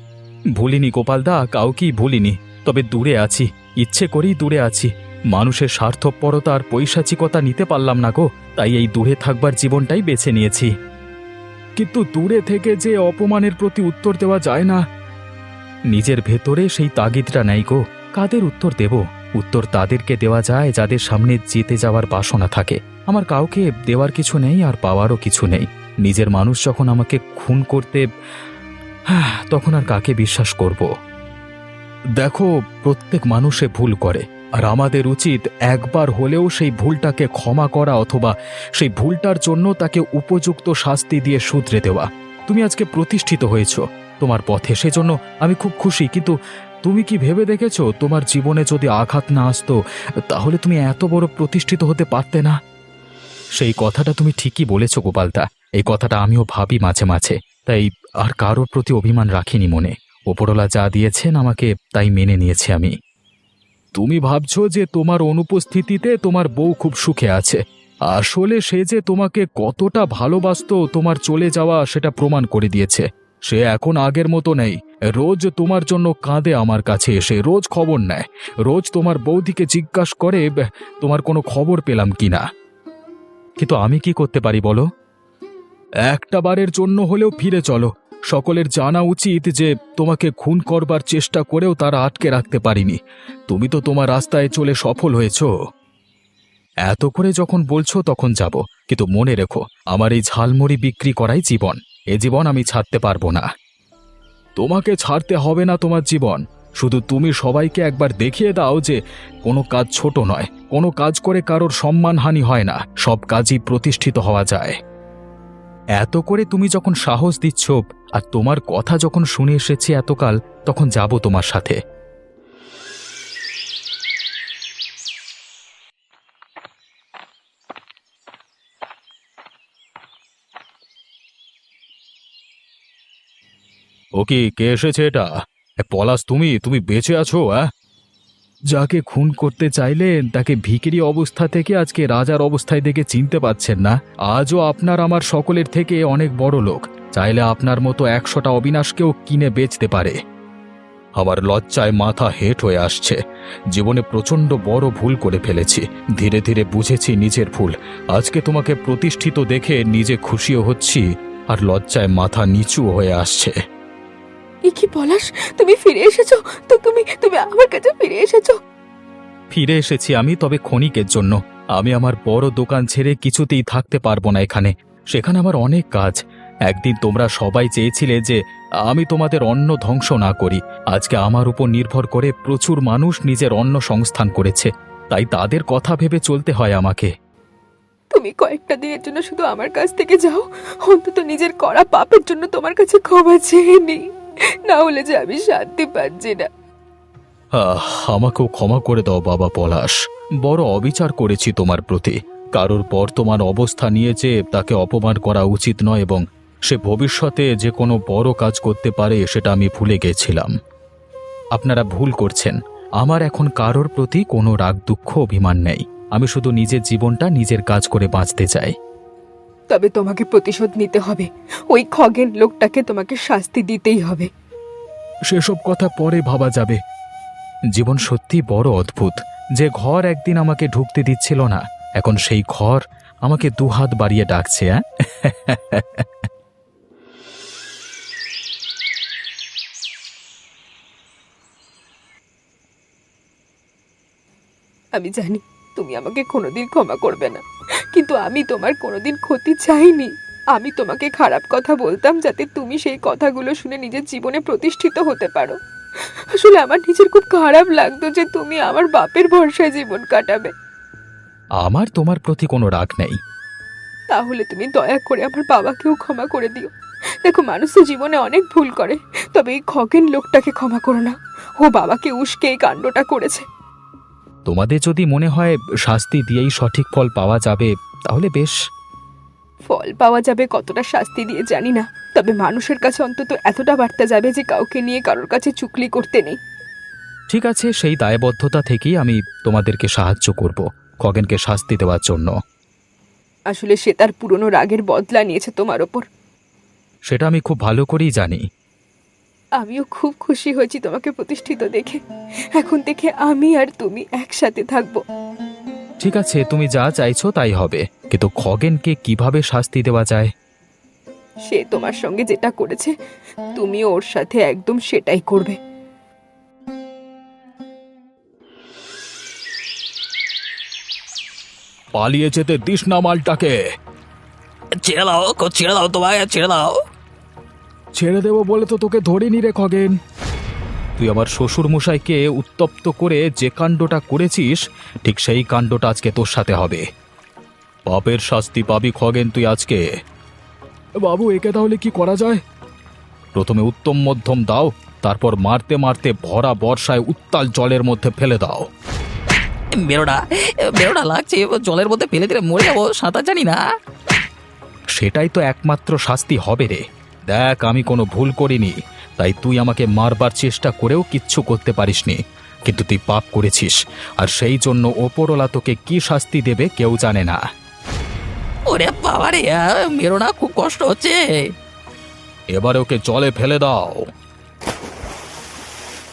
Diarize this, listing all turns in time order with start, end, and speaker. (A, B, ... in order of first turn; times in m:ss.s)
0:00.6-0:10.7 A
0:11.8-0:14.8 A
0:15.9-0:28.0 A
0:29.1-0:30.9 A
0:32.2-0:49.8 A
0:50.3-0:52.6 A
0:53.6-1:03.0 A
1:04.0-1:20.5 A
1:21.0-1:22.4 A
1:23.6-1:24.9 A
1:26.1-1:35.5 A
1:36.8-1:43.5 A
1:44.6-1:54.8 A
1:56.0-2:01.8 A
2:14.2-2:15.3 A
2:15.9-2:17.7 A
2:18.7-2:30.2 A
2:31.2-2:33.2 A
2:33.7-2:43.6 A
2:44.7-2:48.6 B
2:49.5-3:07.1 A
3:08.1-3:14.0 B
3:14.7-3:16.5 B
3:17.6-3:30.5 A
3:31.6-3:38.7 A
3:39.7-3:44.3 B
3:45.3-3:46.8 A
3:47.7-3:56.1 A
4:05.0-4:07.4 B
4:07.9-4:15.6 B
4:16.4-4:20.5 B
4:21.6-4:23.2 A
4:24.1-4:26.7 B
4:27.2-4:33.4 B
4:34.5-4:38.6 A
4:39.7-4:46.4 B
4:47.3-4:52.3 A
4:53.5-4:56.0 B
4:57.1-4:58.4 A
4:59.6-5:02.0 B
5:02.6-5:05.0 B
5:06.0-5:10.3 A
5:11.5-5:12.9 B
5:13.6-5:15.6 B
5:22.0-5:23.5 A
5:24.8-5:26.8 C
5:28.0-5:29.9 A
5:31.0-5:36.8 A
5:37.9-5:39.8 A
5:41.0-5:42.4 A
5:43.4-5:48.6 A
5:49.8-5:53.6 C
5:55.0-6:07.4 A
6:08.7-6:11.5 C
6:12.5-6:14.0 A